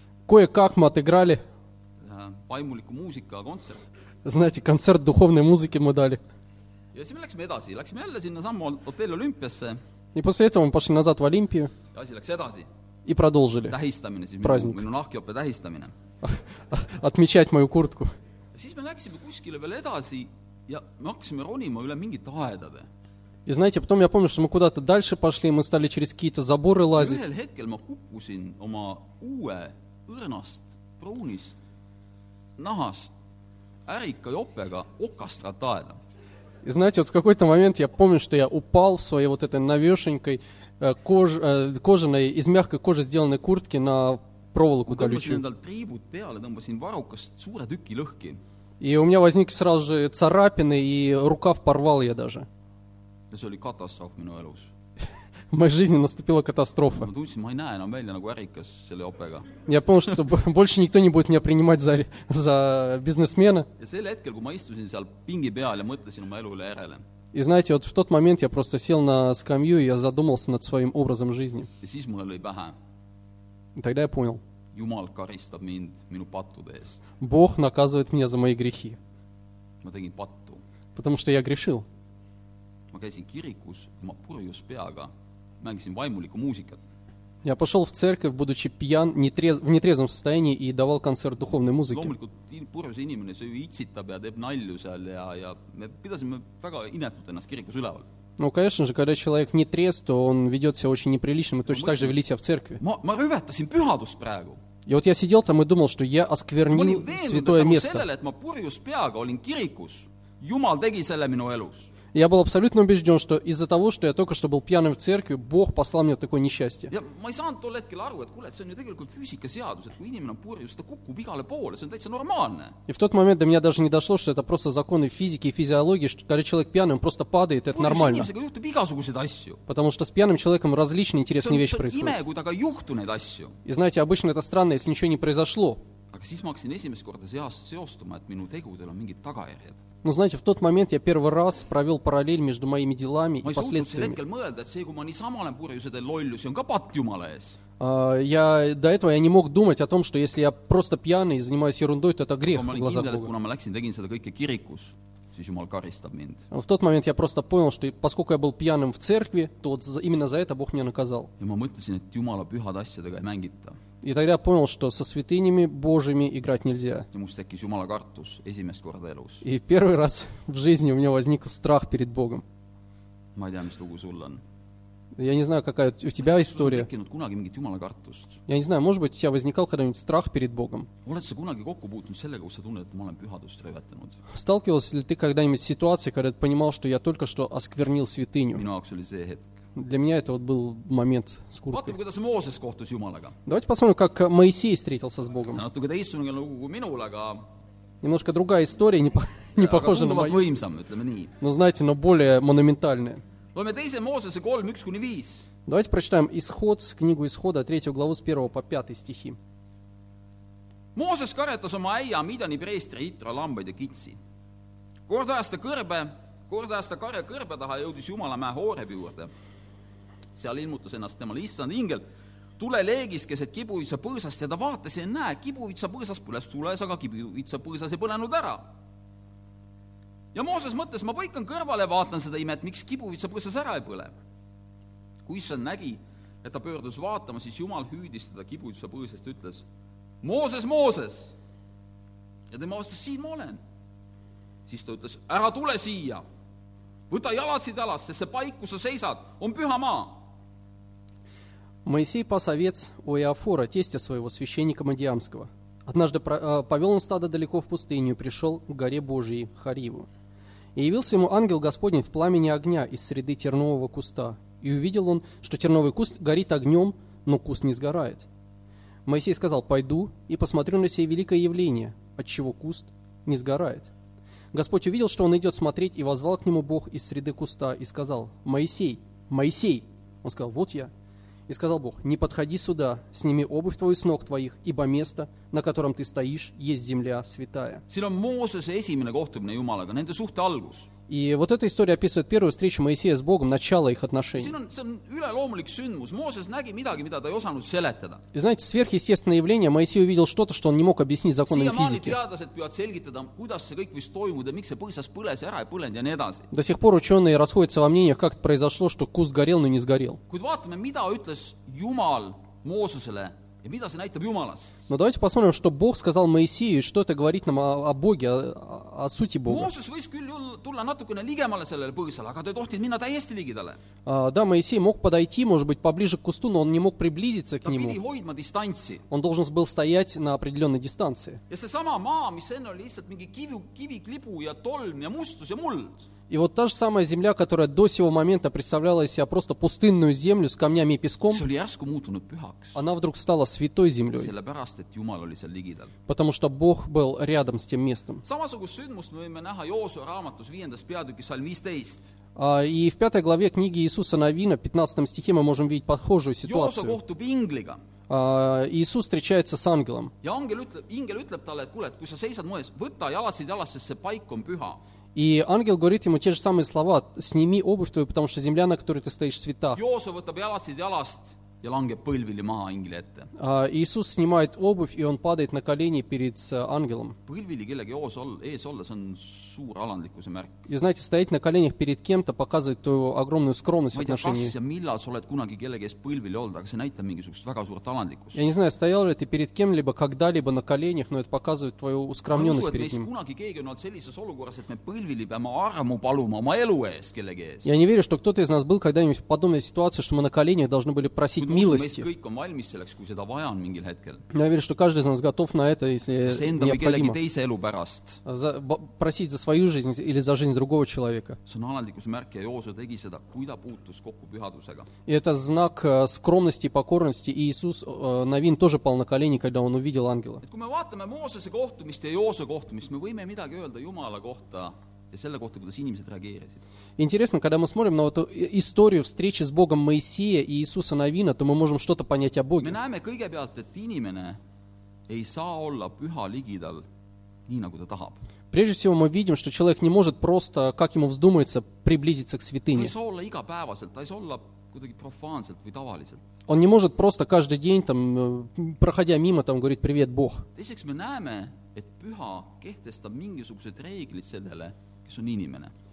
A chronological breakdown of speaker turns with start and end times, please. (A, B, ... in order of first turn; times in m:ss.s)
0:00.3-0:01.4 A
0:02.0-0:03.8 B
0:04.2-0:06.2 A
0:06.9-0:09.8 B
0:10.1-0:11.7 A
0:11.9-0:12.7 B
0:13.0-0:13.8 A
0:13.7-0:15.9 B
0:14.4-0:14.8 A
0:16.2-0:18.1 A
0:18.5-0:22.9 B
0:23.4-0:27.2 A
0:27.0-0:31.6 B
0:32.6-0:33.1 B
0:33.9-0:36.0 B
0:36.6-0:45.4 A
0:44.9-0:48.4 B
0:48.8-0:52.4 A
0:53.3-0:54.7 B
0:55.5-0:57.1 A
0:57.0-1:00.2 B
0:59.7-1:03.7 A
1:03.8-1:07.0 B
1:07.3-1:11.7 A
1:11.8-1:12.7 B
1:13.8-1:14.4 A
1:14.7-1:17.1 B
1:17.2-1:19.0 A
1:19.8-1:20.6 B
1:21.0-1:21.8 A
1:22.9-1:25.1 B
1:25.6-1:26.8 B
1:27.4-1:32.1 A
1:31.9-1:38.0 B
1:38.4-1:42.8 A
1:41.7-1:42.1 B
1:42.8-1:44.6 B
1:44.8-1:48.0 A
1:46.7-1:51.9 B
1:52.1-1:56.9 A
1:56.9-2:02.7 B
2:02.9-2:08.3 A
2:07.7-2:09.6 B
2:09.7-2:12.2 A
2:11.4-2:13.5 B
2:13.6-2:15.8 A
2:16.1-2:19.8 B
2:20.0-2:24.2 A
2:23.4-2:27.6 B
2:27.8-2:33.3 A
2:32.4-2:36.4 B
2:36.5-2:41.3 A
2:41.4-2:43.8 B
2:44.0-2:47.1 A
2:47.1-2:49.4 B
2:49.4-2:52.4 A
2:53.4-2:54.4 B
2:55.2-2:56.9 A
2:56.2-2:58.4 B
2:58.5-3:00.9 A
3:01.0-3:04.2 B
3:04.3-3:08.6 A
3:08.5-3:09.5 B
3:09.8-3:11.9 A
3:11.7-3:13.3 B
3:13.4-3:15.6 A
3:15.5-3:17.4 B
3:18.0-3:20.4 A
3:19.6-3:21.3 B
3:21.4-3:23.2 A
3:23.5-3:25.4 B
3:25.7-3:29.4 A
3:30.9-3:34.2 B
3:35.1-3:39.3 B
3:40.4-3:42.0 B
3:42.6-3:48.6 B
3:50.3-3:54.2 B
3:55.2-3:59.6 B
4:00.2-4:01.3 B
4:02.5-4:03.6 B
4:04.7-4:06.2 B
4:07.1-4:10.2 B
4:11.8-4:20.1 A
4:20.8-4:28.2 A
4:29.0-4:33.9 A
4:34.5-4:40.9 A
4:41.5-4:47.8 A
4:47.9-4:50.9 B
4:51.1-4:54.5 A
4:54.3-4:58.2 B
4:58.3-5:02.2 A
5:01.5-5:06.5 B
5:06.5-5:10.2 A
5:10.3-5:14.8 B
5:14.9-5:19.7 A
5:19.5-5:23.8 B
5:24.0-5:28.0 A
5:27.6-5:29.0 B
5:29.1-5:31.4 A
5:31.5-5:36.0 B
5:36.3-5:41.4 A
5:41.3-5:42.8 B
5:42.7-5:44.3 A
5:44.1-5:45.9 B
5:46.1-5:48.2 A
5:48.2-5:52.1 B
5:52.4-5:57.0 A
5:56.4-5:57.8 B
5:58.1-6:00.1 A
6:00.2-6:04.8 B
6:05.1-6:09.8 A
6:09.7-6:13.3 B
6:13.4-6:17.2 A
6:17.2-6:20.6 B
6:20.7-6:24.5 A
6:23.9-6:28.4 B
6:28.3-6:33.1 A
6:32.3-6:37.7 B
6:37.6-6:42.1 A
6:41.4-6:44.2 B
6:44.3-6:47.2 A
6:46.2-6:48.2 B
6:48.2-6:51.4 A
6:51.4-6:54.9 B
6:55.1-7:00.4 A
7:00.4-7:06.6 B
7:07.0-7:12.8 A
7:12.6-7:14.4 B
7:15.1-7:16.8 B
7:17.5-7:18.2 B
7:18.5-7:22.9 A
7:22.7-7:26.2 B
7:26.5-7:30.4 A
7:30.5-7:35.7 B